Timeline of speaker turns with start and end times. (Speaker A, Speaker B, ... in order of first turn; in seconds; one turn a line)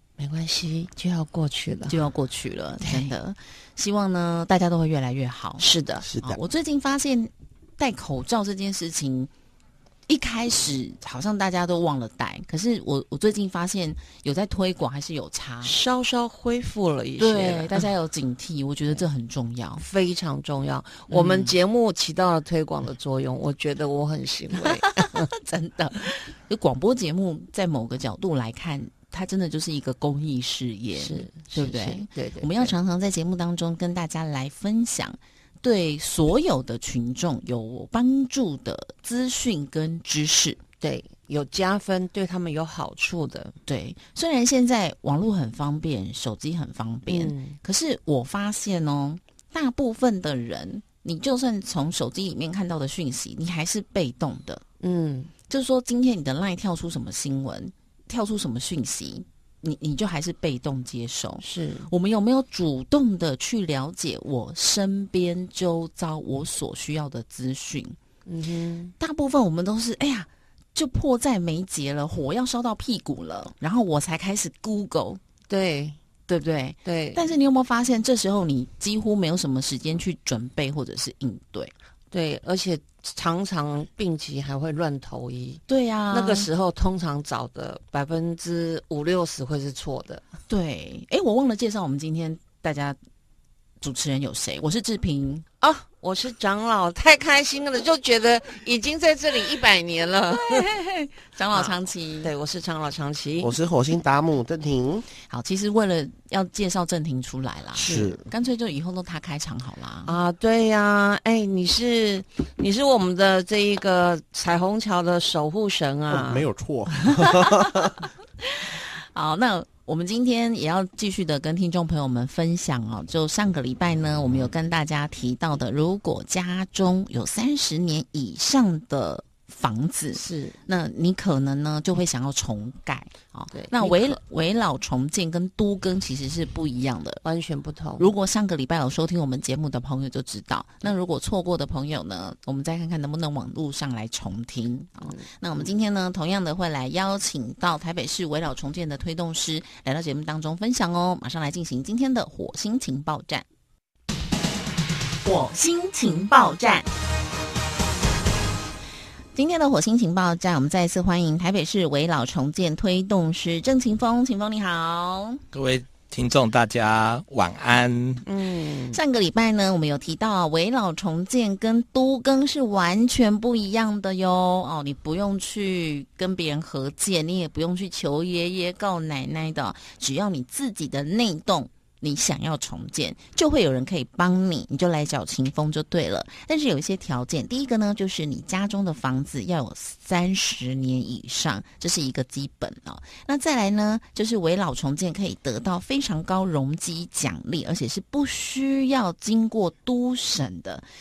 Speaker A: 0.2-1.9
Speaker B: 1.9-9.3
Speaker A: 2.8-3.1
Speaker A: 5.6-6.0
Speaker C: 6.0-6.4
Speaker B: 10.1-15.8
Speaker A: 15.6-17.8
Speaker B: 17.2-19.8
Speaker A: 19.8-25.3
Speaker B: 21.1-21.6
Speaker B: 24.6-40.6
Speaker A: 30.9-32.7
Speaker A: 40.8-43.5
Speaker B: 43.6-54.6
Speaker A: 47.1-47.6
Speaker A: 54.8-55.3
Speaker B: 55.5-68.0
Speaker A: 61.4-61.9
Speaker A: 68.2-68.9
Speaker B: 69.0-75.2
Speaker A: 75.5-76.0
Speaker B: 76.3-81.7
Speaker A: 76.8-77.3
Speaker A: 82.1-90.2
Speaker B: 85.7-86.5
Speaker B: 90.5-93.0
Speaker B: 93.8-95.4
Speaker A: 95.6-100.7
Speaker B: 100.3-102.3
Speaker A: 101.5-103.5
Speaker C: 103.4-105.0
Speaker B: 105.3-110.1
Speaker A: 107.7-108.2
Speaker C: 107.8-108.2
Speaker A: 110.0-116.5
Speaker C: 116.1-118.0
Speaker B: 117.0-137.2
Speaker A: 130.1-130.6
Speaker A: 133.5-134.2
Speaker A: 137.2-138.1
Speaker B: 138.0-153.4
Speaker A: 145.0-145.3
Speaker B: 155.2-156.9
Speaker B: 159.3-165.4
Speaker D: 165.5-168.2
Speaker A: 168.2-169.0
Speaker B: 168.9-200.8